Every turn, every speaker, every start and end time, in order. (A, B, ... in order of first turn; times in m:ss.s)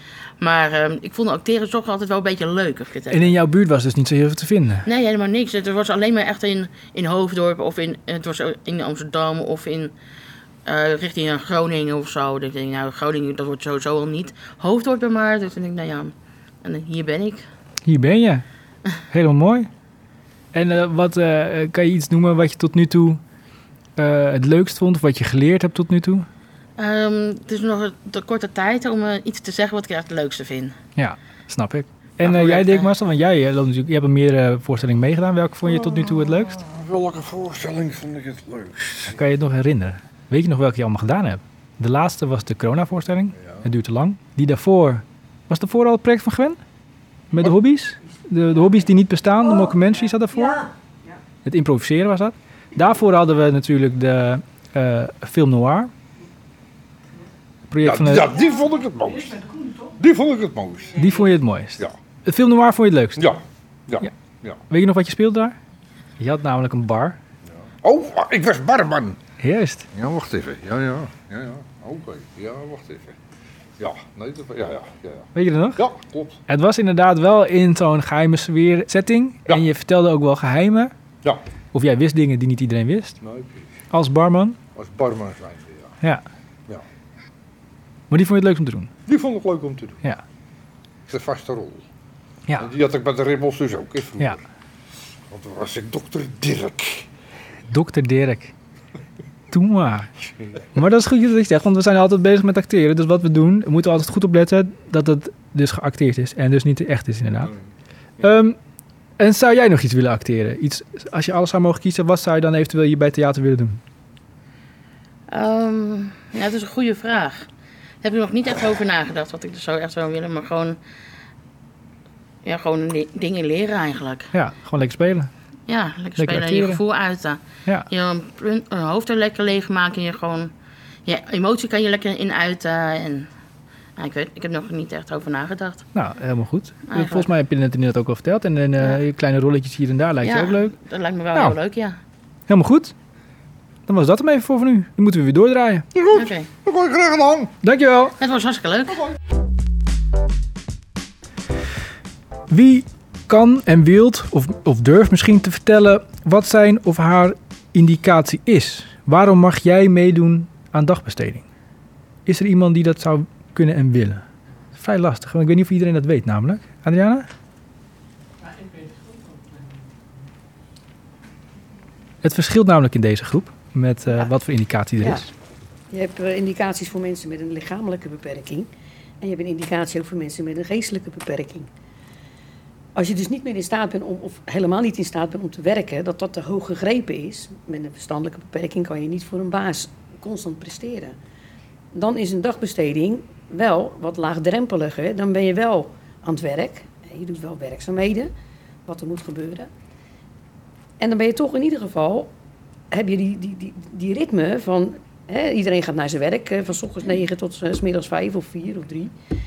0:00.4-0:03.3 A
0:03.1-0:04.9 B
0:04.9-0:09.9 A
0:10.6-0:16.1 A
0:16.6-0:17.4 A
0:17.9-0:18.4 B
0:19.1-0:19.7 B
0:20.5-0:23.2 B
0:24.0-0:26.3 B
0:26.8-0:30.8 A
0:31.0-0:36.6 B
0:32.2-0:32.8 A
0:35.7-0:39.2 C
0:39.1-0:46.6 B
0:47.3-0:50.7 B
0:51.4-0:55.9 B
0:57.7-0:58.3 B
0:57.8-1:01.1 C
1:01.0-1:03.3 B
1:03.2-1:04.6 C
1:04.7-1:05.6 B
1:06.2-1:07.2 B
1:07.6-1:09.2 C
1:09.4-1:09.9 B
1:09.9-1:13.2 C
1:13.8-1:16.4 C
1:15.4-1:15.8 B
1:16.5-1:20.9 B
1:21.7-1:23.2 B
1:23.2-1:23.7 C
1:23.9-1:24.6 B
1:24.8-1:25.9 C
1:28.1-1:28.9 B
1:29.1-1:30.0 C
1:31.1-1:31.8 C
1:32.6-1:34.4 C
1:35.3-1:37.1 C
1:37.7-1:38.5 B
1:39.5-1:40.1 B
1:40.7-1:47.5 B
1:48.2-1:48.6 B
1:49.2-1:53.8 B
1:55.3-1:57.5 A
1:58.0-2:00.8 A
2:02.4-2:04.3 A
2:04.3-2:05.3 B
2:05.7-2:10.5 A
2:06.2-2:06.8 B
2:11.1-2:13.3 A
2:14.0-2:15.9 A
2:16.0-2:20.7 B
2:16.9-2:17.3 A
2:20.2-2:22.0 A
2:22.5-2:22.9 B
2:23.9-2:25.9 B
2:25.9-2:27.5 C
2:26.1-2:26.5 A
2:27.6-2:28.2 B
2:28.2-2:29.1 A
2:32.5-2:41.5 B
2:42.3-2:44.2 B
2:44.8-2:47.3 B
2:52.2-2:55.3 B
2:55.9-2:58.7 D
2:59.2-3:01.7 D
3:03.0-3:11.2 D
3:11.9-3:18.3 D
3:18.9-3:19.7 D
3:21.0-3:22.3 D
3:22.9-3:29.1 D